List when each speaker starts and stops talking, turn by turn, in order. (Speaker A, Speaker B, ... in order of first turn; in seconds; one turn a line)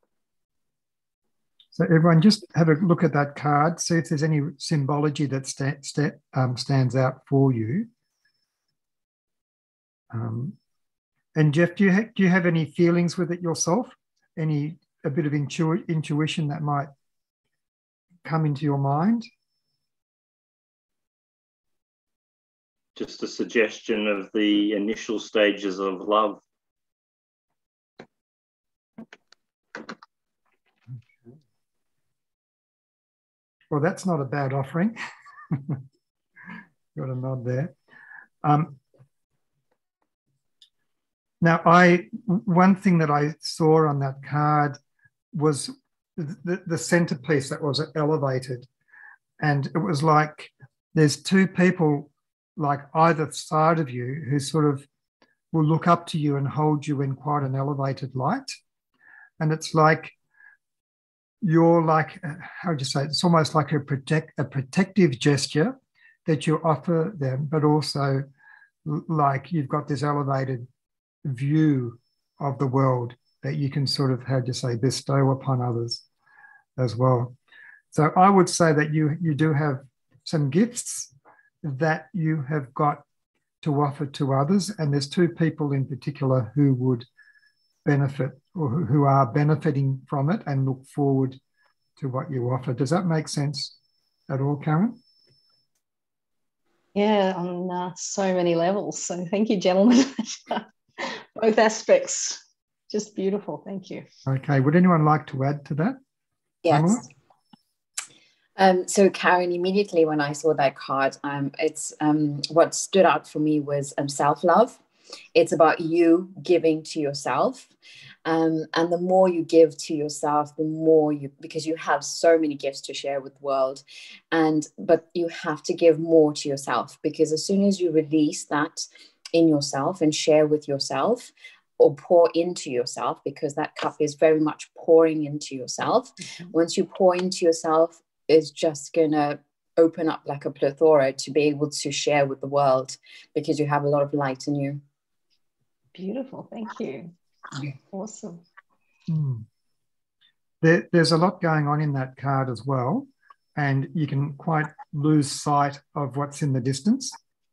Speaker A: 1.7-7.9
Speaker A: 10.1-10.6
Speaker A: 11.3-16.9
Speaker A: 18.2-19.3
Speaker B: 22.9-26.4
Speaker A: 30.9-31.3
Speaker A: 33.7-35.0
Speaker A: 35.5-35.8
Speaker A: 36.9-37.7
Speaker A: 38.4-38.8
Speaker A: 41.4-44.8
Speaker A: 45.3-48.7
Speaker A: 49.4-54.9
Speaker A: 55.5-58.5
Speaker A: 59.4-60.1
Speaker A: 61.4-65.7
Speaker A: 66.2-68.2
Speaker A: 68.8-70.7
Speaker A: 71.2-76.0
Speaker A: 76.8-77.3
Speaker A: 77.9-83.0
Speaker A: 83.6-87.1
Speaker A: 87.8-91.4
Speaker A: 92.0-93.7
Speaker A: 94.3-95.0
Speaker C: 96.9-104.0
Speaker A: 104.2-106.0
Speaker D: 106.6-107.0
Speaker A: 106.7-107.0
Speaker D: 108.6-114.8
Speaker D: 115.3-117.7
Speaker D: 118.2-144.8
Speaker C: 145.9-148.4
Speaker A: 149.1-149.4
Speaker A: 150.6-157.2